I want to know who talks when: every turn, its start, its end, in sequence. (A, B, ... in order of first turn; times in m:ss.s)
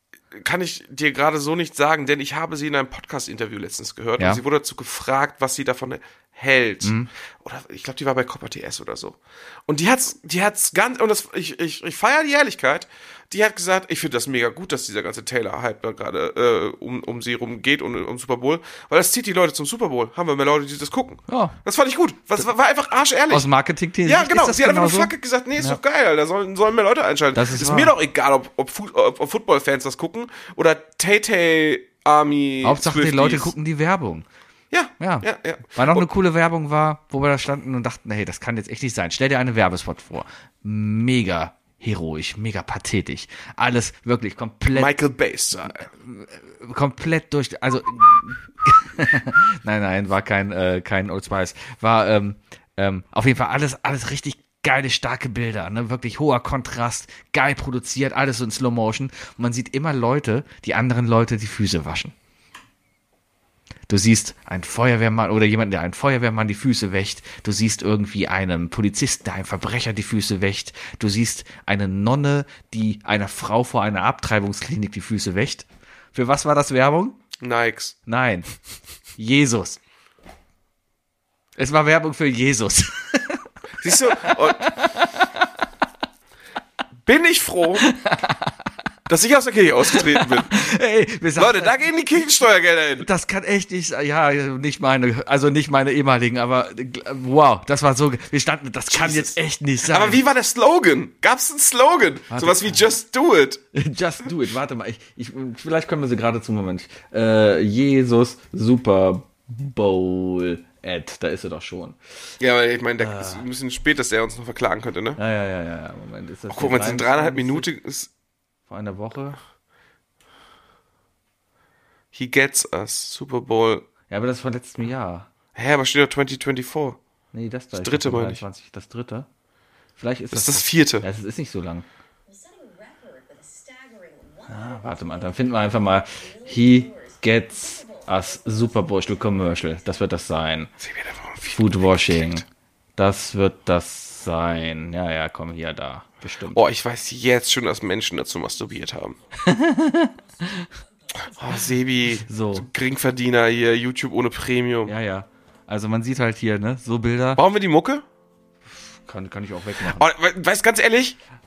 0:00.3-0:23.5 A
0:06.8-0:07.1 B
0:21.3-0:21.6 B
0:23.3-0:25.8 B
0:24.0-0:33.5 A
0:27.3-0:27.9 B
0:32.6-0:34.2 B
0:34.7-0:36.0 A
0:35.0-0:44.9 B
0:44.7-0:45.9 A
0:45.7-1:02.1 B
1:03.9-1:17.2 B
1:17.4-1:18.0 A
1:18.1-1:18.5 B
1:19.2-1:19.8 B
1:21.6-1:25.4 B
1:23.8-1:24.7 A
1:27.0-1:27.9 A
1:27.8-1:28.6 B
1:29.1-1:30.5 A
1:29.9-1:31.8 B
1:31.4-1:33.1 A
1:33.0-1:40.2 B
1:38.9-1:39.4 A
1:39.9-1:43.6 A
1:42.3-1:42.8 B
1:43.7-1:52.0 B
1:52.4-1:55.2 A
1:53.0-1:53.4 B
1:55.2-1:57.7 B
1:56.5-1:58.1 A
1:58.7-1:59.4 B
2:02.1-2:03.9 A
2:04.1-2:05.3 B
2:05.5-2:07.0 A
2:07.3-2:09.3 B
2:07.7-2:08.4 A
2:10.0-2:11.8 B
2:10.3-2:11.0 A
2:12.3-2:20.1 C
2:14.5-2:20.7 B
2:20.8-2:22.1 A
2:21.4-2:22.4 B
2:23.0-2:26.6 B
2:26.5-2:29.2 A
2:29.4-2:30.7 B
2:31.2-2:34.9 A
2:32.2-2:32.7 B
2:34.8-2:37.4 B
2:37.4-2:38.0 A
2:38.9-2:40.1 B
2:39.8-2:41.2 A